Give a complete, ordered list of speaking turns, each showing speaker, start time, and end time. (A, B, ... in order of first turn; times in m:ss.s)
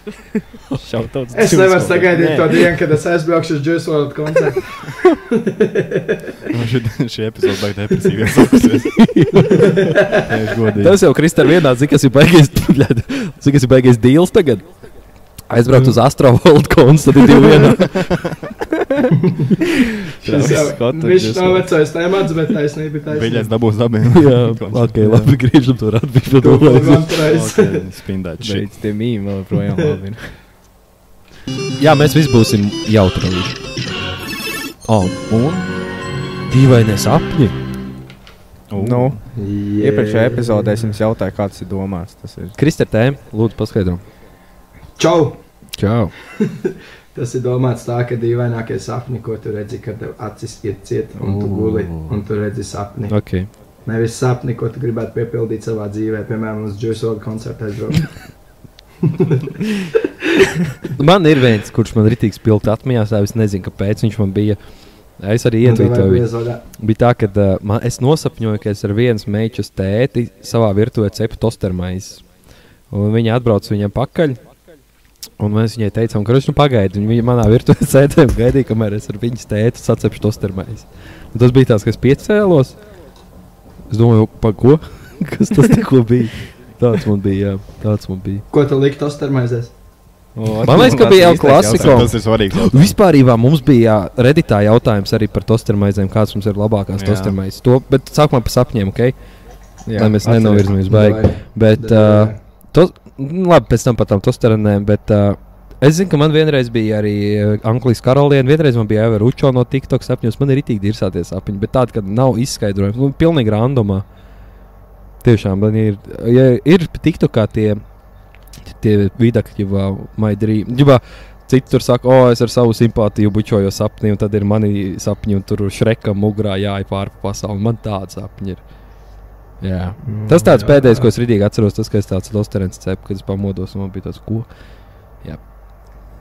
0:00.8-0:02.7 A
0:01.3-0:06.4 B
0:06.5-0:09.1 C
0:08.9-0:09.8 D
0:09.6-0:10.2 B
0:10.4-0:10.9 C
0:10.6-0:10.8 A
0:10.8-0:14.6 D
0:15.5-0:18.2 D
0:15.7-0:16.0 B
0:20.2-0:21.7 A
0:20.2-0:23.5 B
0:23.1-0:25.1 C
0:24.1-0:27.2 D
0:26.4-0:27.9 B
0:27.2-0:28.7 C
0:28.4-0:30.3 A
0:31.8-0:33.6 D
0:34.9-0:35.7 D
0:36.5-0:37.6 D
0:38.7-0:39.2 C
0:38.8-0:39.2 A
0:39.3-0:41.0 B
0:39.8-0:42.6 A
0:42.6-0:44.0 D
0:45.0-0:45.4 B
0:45.8-0:46.1 D
0:46.4-0:53.2 B
0:51.5-0:51.9 D
0:53.1-0:53.5 D
0:53.9-0:58.3 B
0:59.0-0:59.5 B
1:01.0-1:04.6 D
1:05.2-1:06.3 D
1:05.6-1:06.6 B
1:06.8-1:12.2 D
1:12.9-1:14.4 D
1:15.4-1:22.8 D
1:23.9-1:28.4 D
1:28.5-1:29.7 B
1:30.4-1:32.1 A
1:30.6-1:39.2 D
1:31.6-1:33.0 C
1:37.0-1:37.4 C
1:39.9-1:40.6 A
1:40.0-1:54.0 D
1:40.3-1:42.4 B
1:55.2-1:57.8 D
1:58.6-2:08.6 D
2:09.6-2:14.5 D
2:10.0-2:11.1 B